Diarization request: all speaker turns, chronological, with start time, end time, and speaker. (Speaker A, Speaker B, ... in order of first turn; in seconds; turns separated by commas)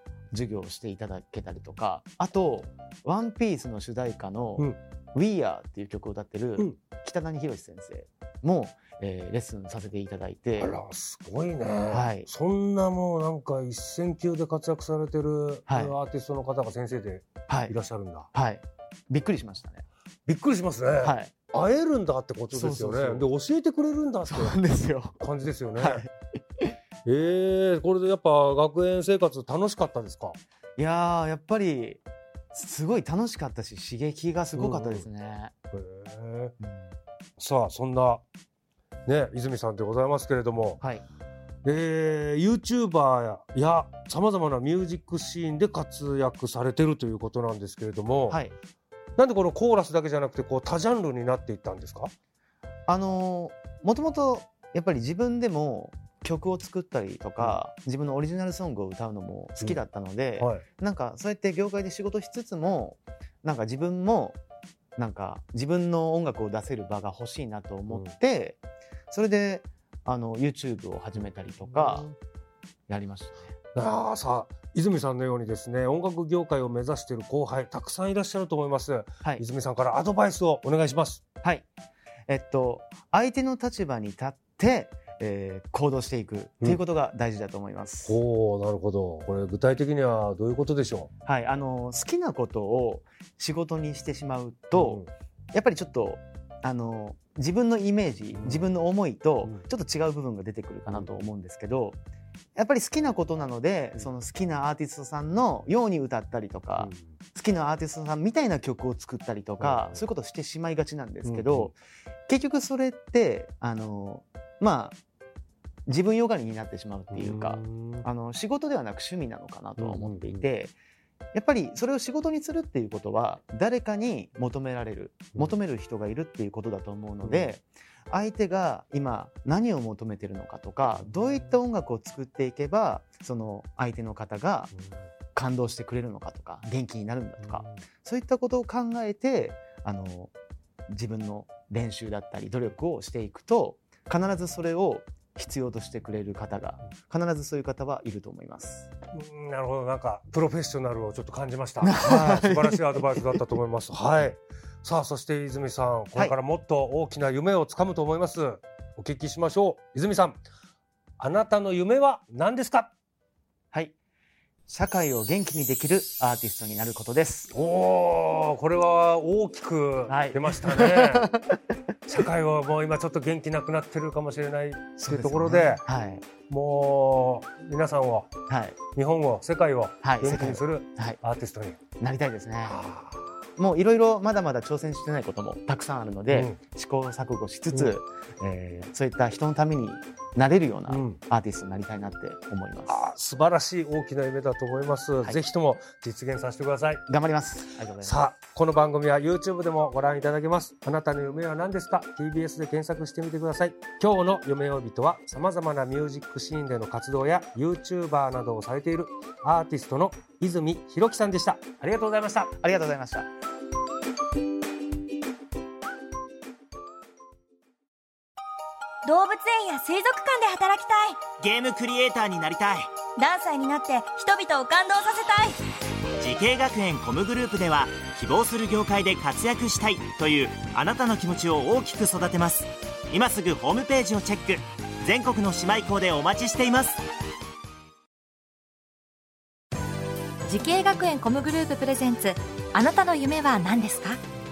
Speaker A: 0.3-10.7, Speaker B: 10.6-18.3, Speaker A: 11.9-12.3, Speaker A: 15.7-15.9, Speaker A: 17.5-17.7, Speaker A: 18.3-19.8, Speaker B: 20.3-24.6, Speaker A: 21.0-21.3, Speaker A: 22.5-23.3, Speaker A: 24.3-25.2, Speaker B: 25.2-26.0, Speaker A: 25.8-26.8, Speaker B: 27.1-30.4, Speaker A: 30.8-32.0, Speaker A: 32.5-35.5, Speaker B: 34.6-35.1, Speaker B: 35.7-36.5, Speaker A: 36.6-37.0, Speaker B: 37.4-38.2, Speaker B: 39.1-40.8, Speaker A: 40.8-41.0, Speaker B: 41.6-48.4, Speaker A: 48.3-48.5, Speaker B: 49.2-52.1, Speaker A: 52.9-64.4, Speaker B: 60.4-60.6, Speaker A: 65.0-68.6, Speaker A: 69.1-72.1, Speaker B: 71.6-72.2, Speaker A: 72.9-73.5, Speaker B: 73.8-81.2, Speaker A: 81.4-81.7, Speaker A: 82.3-88.2, Speaker B: 88.0-91.1, Speaker A: 91.2-102.0, Speaker B: 94.7-95.1, Speaker B: 98.4-98.7, Speaker B: 100.9-101.2, Speaker A: 102.6-111.8, Speaker B: 106.8-107.1, Speaker B: 109.6-110.0, Speaker B: 111.2-111.7, Speaker A: 112.3-115.0, Speaker A: 115.9-120.8, Speaker B: 117.1-118.1, Speaker B: 119.8-120.5, Speaker A: 121.3-134.7, Speaker B: 127.2-127.5, Speaker B: 131.0-131.6, Speaker A: 135.3-140.3, Speaker B: 137.4-137.8, Speaker A: 140.9-148.9, Speaker B: 149.1-160.4, Speaker A: 151.8-153.4, Speaker B: 161.2-162.9, Speaker A: 164.7-167.5, Speaker B: 167.5-171.3, Speaker A: 170.1-171.6, Speaker B: 172.1-175.8, Speaker A: 175.0-176.2, Speaker B: 176.5-178.3, Speaker A: 178.5-178.8, Speaker B: 178.9-181.8, Speaker A: 180.0-181.2, Speaker A: 182.0-182.8, Speaker B: 182.7-183.3, Speaker A: 183.6-193.1, Speaker B: 186.3-186.6, Speaker B: 190.9-191.2, Speaker B: 192.9-197.0, Speaker A: 197.1-198.2, Speaker B: 198.0-212.5, Speaker A: 212.6-213.3, Speaker C: 219.1-221.3, Speaker D: 221.4-222.9, Speaker C: 223.2-225.6, Speaker D: 226.2-237.0, Speaker E: 240.5-244.2